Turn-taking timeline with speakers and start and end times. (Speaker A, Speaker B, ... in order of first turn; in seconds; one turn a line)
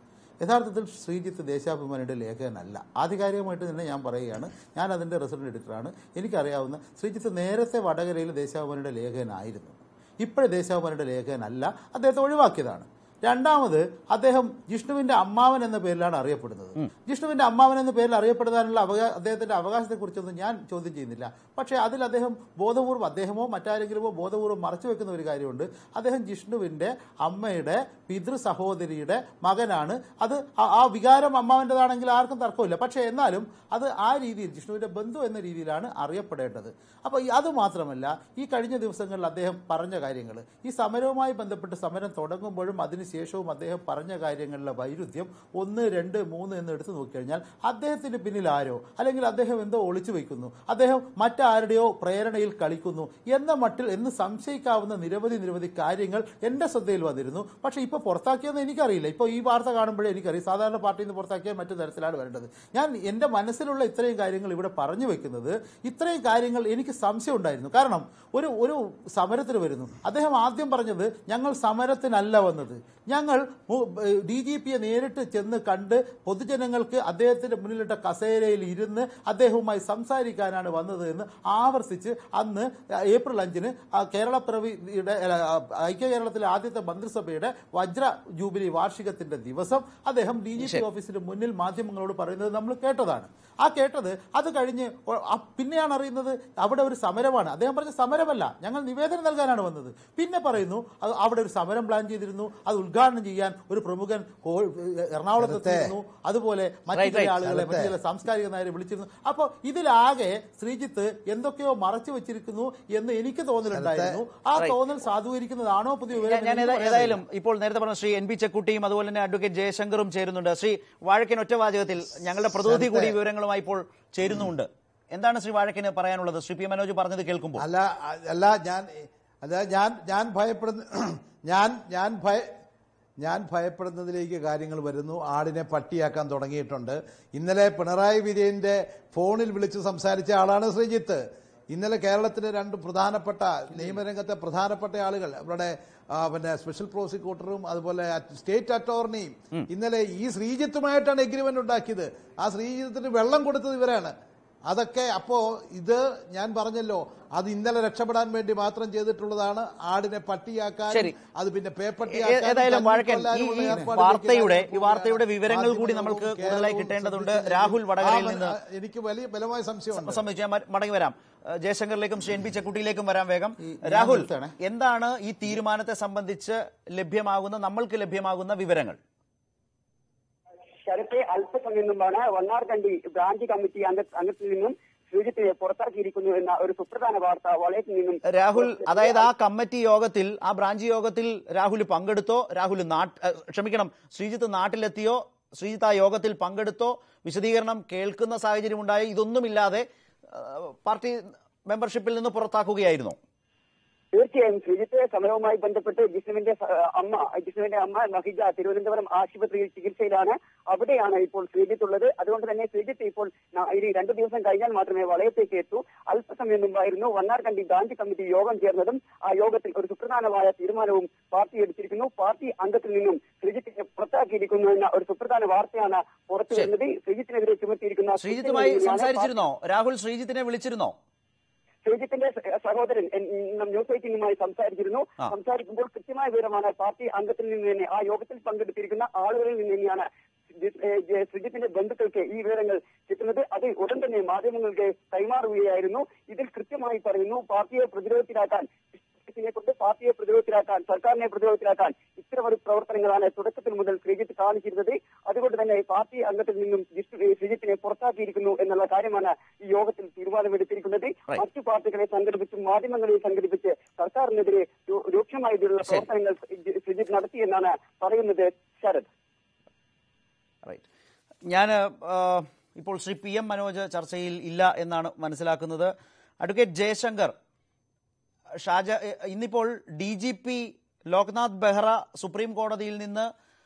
Speaker A: 0.4-117.2
Speaker B: 105.4-105.9
Speaker C: 107.0-107.3
Speaker B: 107.3-108.0
Speaker B: 113.7-114.2
Speaker C: 116.2-127.6
Speaker B: 122.4-123.2
Speaker B: 127.6-132.5
Speaker B: 133.2-154.1
Speaker B: 154.7-170.2
Speaker C: 160.9-161.2
Speaker C: 162.1-168.6
Speaker C: 169.9-179.0
Speaker A: 173.6-174.5
Speaker D: 180.9-189.3
Speaker C: 188.3-203.2
Speaker D: 204.1-229.3
Speaker C: 228.2-231.0
Speaker D: 231.8-269.1
Speaker C: 271.5-277.3
Speaker C: 278.6-283.3